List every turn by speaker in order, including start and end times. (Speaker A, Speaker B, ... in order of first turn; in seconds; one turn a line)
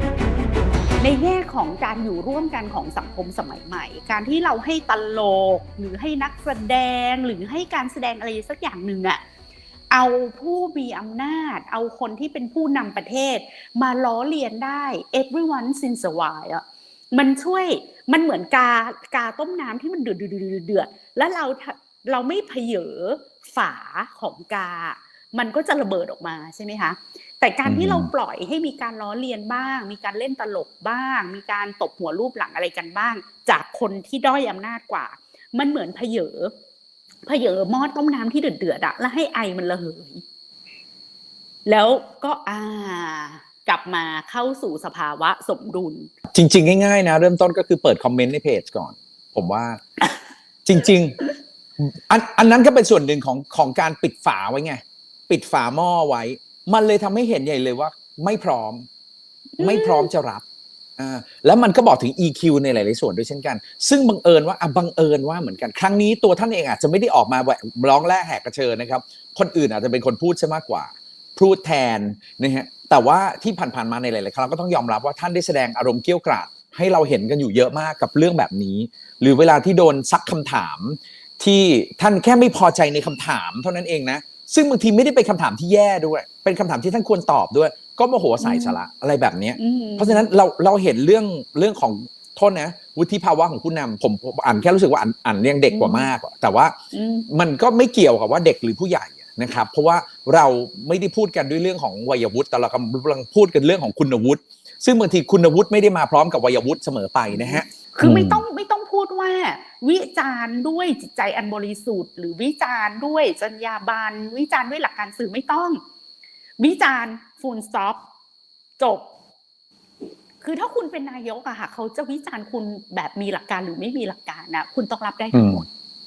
Speaker A: 1.0-9.2
Speaker A: 9.9-36.5
Speaker B: 27.6-28.1
Speaker A: 37.2-40.2
Speaker A: 41.6-46.1
Speaker B: 46.3-49.8
Speaker B: 50.6-51.2
Speaker B: 51.8-58.9
Speaker A: 59.6-60.1
Speaker B: 59.6-60.4
Speaker B: 61.0-96.7
Speaker A: 88.4-88.8
Speaker A: 89.6-90.3
Speaker A: 95.7-96.1
Speaker A: 96.9-97.3
Speaker B: 97.3-108.4
Speaker A: 107.3-115.8
Speaker A: 116.6-118.0
Speaker A: 118.8-119.1
Speaker A: 120.4-125.6
Speaker B: 125.3-125.6